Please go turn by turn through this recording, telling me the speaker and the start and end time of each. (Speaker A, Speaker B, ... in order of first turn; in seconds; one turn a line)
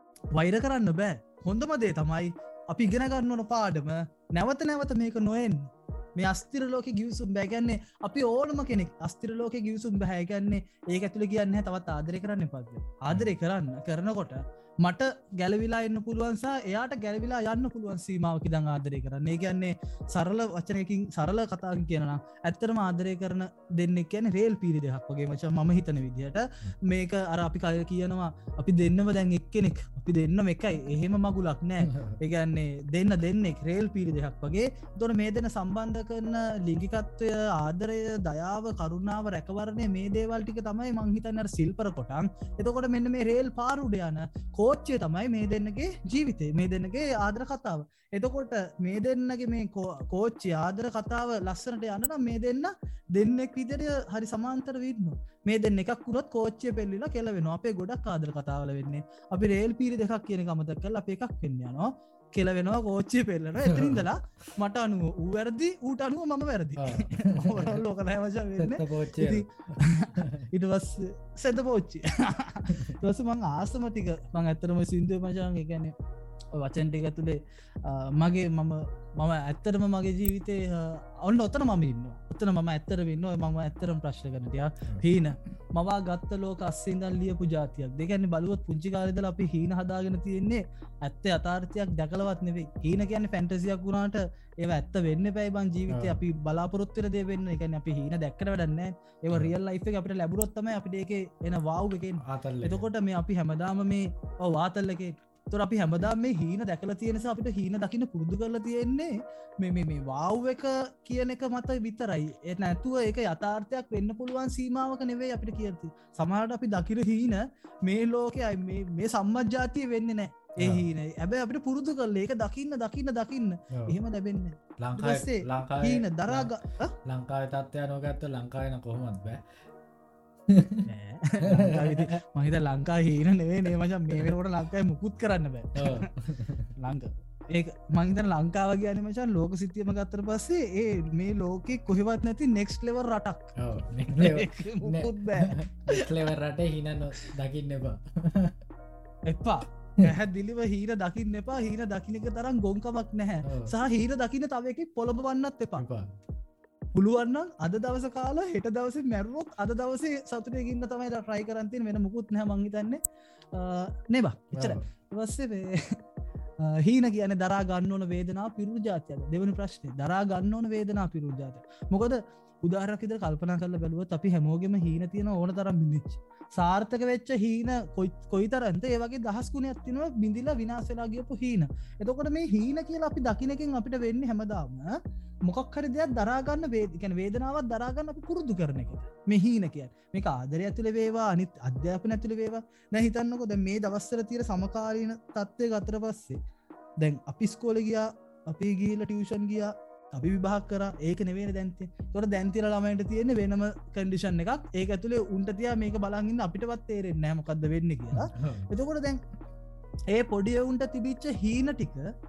Speaker A: 0.3-75.9
Speaker B: 31.8-32.2
Speaker B: 63.7-64.0
Speaker B: 66.8-67.8
Speaker B: 68.6-70.5
Speaker B: 72.7-72.9
Speaker A: 76.5-126.9
Speaker B: 95.9-96.2
Speaker B: 102.2-102.9
Speaker B: 120.6-120.9
Speaker B: 123.7-124.0
Speaker B: 124.8-126.5
Speaker B: 127.0-129.4
Speaker B: 130.5-130.9
Speaker A: 130.8-136.1
Speaker B: 131.4-132.2
Speaker B: 135.7-136.7
Speaker A: 136.8-143.6
Speaker B: 143.6-148.6
Speaker A: 144.1-146.2
Speaker A: 149.2-155.8
Speaker B: 153.4-153.7
Speaker B: 155.8-156.1
Speaker A: 156.9-163.0
Speaker A: 163.5-166.0
Speaker B: 164.5-164.8
Speaker A: 166.6-196.4
Speaker A: 197.0-209.2
Speaker B: 208.1-208.7
Speaker A: 210.1-212.1